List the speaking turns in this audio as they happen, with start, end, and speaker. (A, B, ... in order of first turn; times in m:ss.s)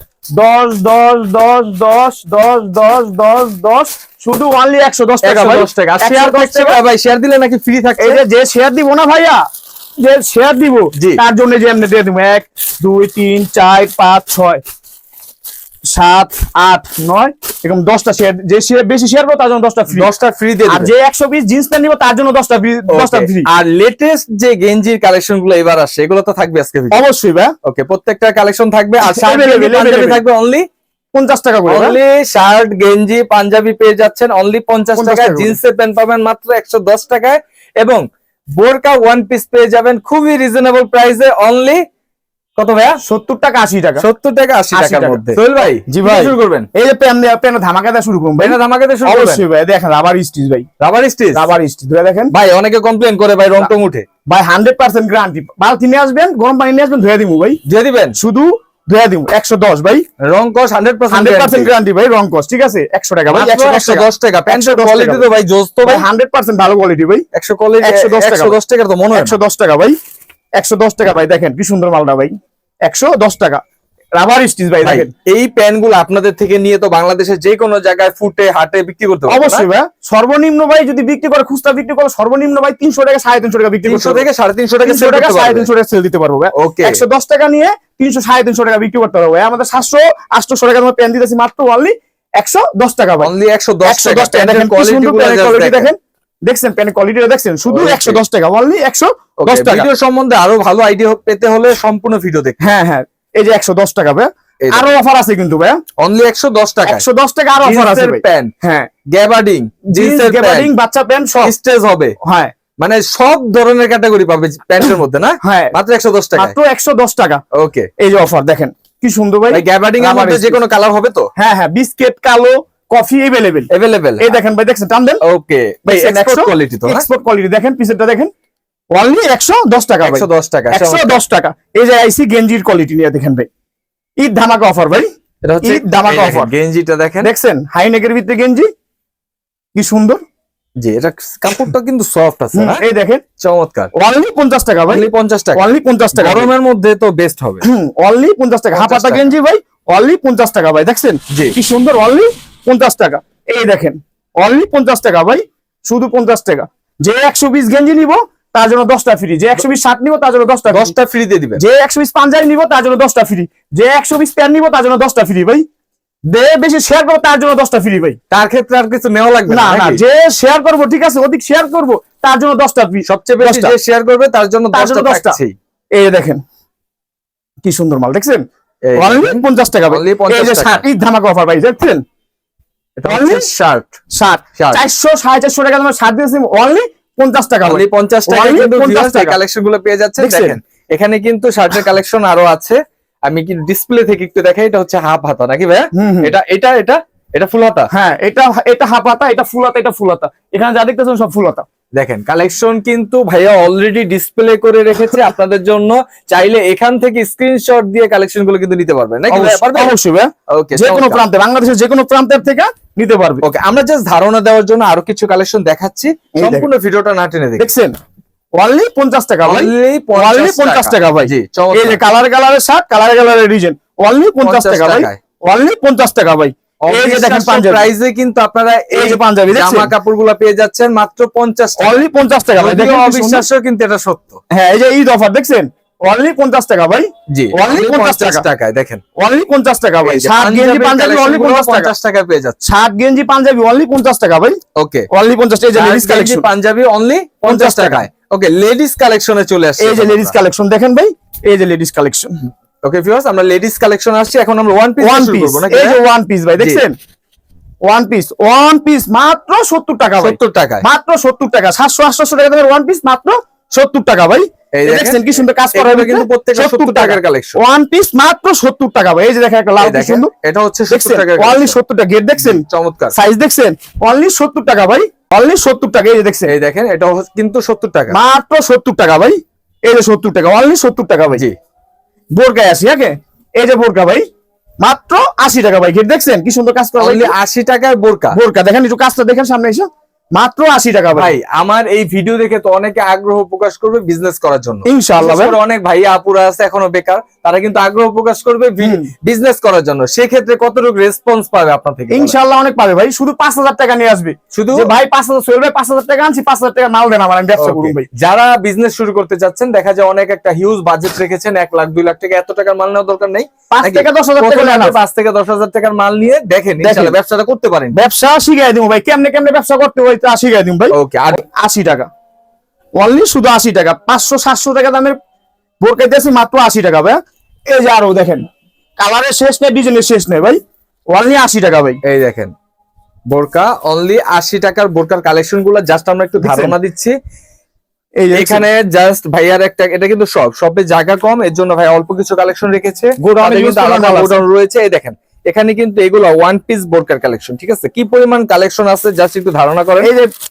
0:00.4-0:06.8 A
0:05.2-0:08.2 B
0:08.0-0:09.4 A
0:10.0-0:14.6 A
0:15.9-0:20.1 A
0:19.9-0:20.9 B
0:20.7-0:23.5 A
0:22.9-0:27.0 B
0:26.9-0:27.5 A
0:27.6-0:30.6 B
0:29.0-0:30.2 A
0:31.1-0:32.0 A
0:31.7-0:38.0 B
0:35.0-0:35.6 A
0:38.6-0:41.8 B
0:42.6-0:43.0 B
0:43.0-0:44.0 A
0:44.0-0:46.7 B
0:44.7-0:45.3 A
0:45.9-0:50.7 A
0:48.4-0:49.4 B
0:50.8-0:51.5 B
0:51.3-0:52.3 A
0:52.3-0:54.1 B
0:54.3-0:57.6 A
0:57.6-0:58.2 B
0:58.2-1:00.0 A
1:00.2-1:01.7 B
1:01.1-1:05.3 A
1:03.3-1:06.1 B
1:05.8-1:07.2 A
1:07.3-1:09.4 B
1:07.8-1:08.6 A
1:09.1-1:09.9 A
1:10.6-1:12.4 A
1:12.9-1:13.6 A
1:14.2-1:15.1 A
1:14.8-1:19.7 B
1:19.3-1:24.2 A
1:23.8-1:25.7 B
1:24.8-1:33.3 A
1:26.6-1:27.0 B
1:33.2-1:35.9 B
1:33.8-1:39.9 A
1:37.7-1:38.2 B
1:39.4-1:42.6 B
1:42.6-1:45.8 A
1:44.6-1:44.9 B
1:46.0-1:47.0 B
1:46.9-1:48.9 A
1:47.6-1:48.5 B
1:49.1-1:50.7 B
1:49.9-1:51.5 A
1:51.4-1:52.2 B
1:52.2-1:52.6 A
1:52.8-1:56.6 B
1:55.4-1:55.8 A
1:56.4-1:57.4 A
1:57.5-1:57.9 B
1:58.0-2:00.6 A
1:59.5-2:01.3 B
2:01.4-2:05.2 A
2:03.7-2:04.4 B
2:05.2-2:07.0 B
2:05.9-2:08.3 A
2:08.9-2:13.5 A
2:10.0-2:11.2 B
2:14.2-2:15.1 A
2:15.4-2:17.3 B
2:15.6-2:16.5 A
2:17.2-2:18.7 A
2:19.8-2:20.2 A
2:20.8-2:22.8 B
2:22.6-2:23.2 A
2:23.4-2:23.9 B
2:24.0-2:26.5 A
2:24.9-2:27.6 B
2:27.6-2:40.9 A
2:28.7-2:29.3 B
2:40.7-2:41.6 B
2:41.6-2:45.6 A
2:46.3-2:48.2 A
2:48.3-2:50.0 B
2:49.5-2:53.8 A
2:53.1-2:55.5 B
2:54.7-2:55.4 A
2:56.0-2:56.4 A
2:57.6-2:58.4 A
2:58.9-3:00.8 B
2:59.0-3:02.0 A
3:03.0-3:03.9 B
3:03.1-3:03.5 A
3:04.1-3:09.4 A
3:04.6-3:04.8 B
3:07.6-3:17.9 B
3:10.2-3:10.6 A
3:16.0-3:16.3 A
3:17.9-3:21.7 A
3:22.0-3:30.0 B
3:29.3-3:33.4 A
3:30.5-3:31.2 B
3:33.4-3:37.7 B
3:36.4-3:36.7 A
3:37.6-3:38.0 A
3:38.6-3:47.9 A
3:39.5-3:42.0 B
3:44.4-3:45.2 B
3:46.9-3:52.0 B
3:48.9-3:49.9 A
3:51.8-3:53.5 A
3:52.6-3:54.4 B
3:54.5-3:58.4 A
3:57.3-3:59.0 B
3:59.2-4:01.9 A
4:00.0-4:02.6 B
4:02.6-4:04.6 A
4:04.8-4:05.1 B
4:05.1-4:06.5 A
4:05.8-4:10.4 B
4:07.4-4:08.0 A
4:09.8-4:12.4 A
4:12.8-4:16.0 B
4:15.0-4:16.9 A
4:16.6-4:16.8 B
4:17.8-4:30.3 A
4:20.2-4:20.8 B
4:24.7-4:27.6 B
4:29.8-4:31.8 B
4:30.9-4:36.5 A
4:32.4-4:33.1 B
4:36.5-4:38.2 B
4:38.1-4:41.4 A
4:42.4-4:44.2 A
4:44.8-4:47.3 A
4:47.0-4:48.4 B
4:48.3-4:51.4 A
4:51.2-5:02.4 B
4:54.9-4:55.6 A
4:58.8-4:59.1 A
5:02.1-5:08.1 A
5:04.5-5:04.9 B
5:07.6-5:18.0 B
5:13.7-5:15.0 A
5:16.8-5:17.2 A
5:17.9-5:22.1 A
5:20.9-5:21.4 B
5:23.0-5:25.2 A
5:25.8-5:28.4 A
5:29.0-5:30.6 A
5:31.1-5:32.0 A
5:32.0-5:32.5 B
5:33.3-5:37.2 B
5:36.4-5:36.8 A
5:38.2-5:38.6 A
5:38.4-5:50.1 B
5:43.2-5:44.4 A
5:50.0-5:50.3 A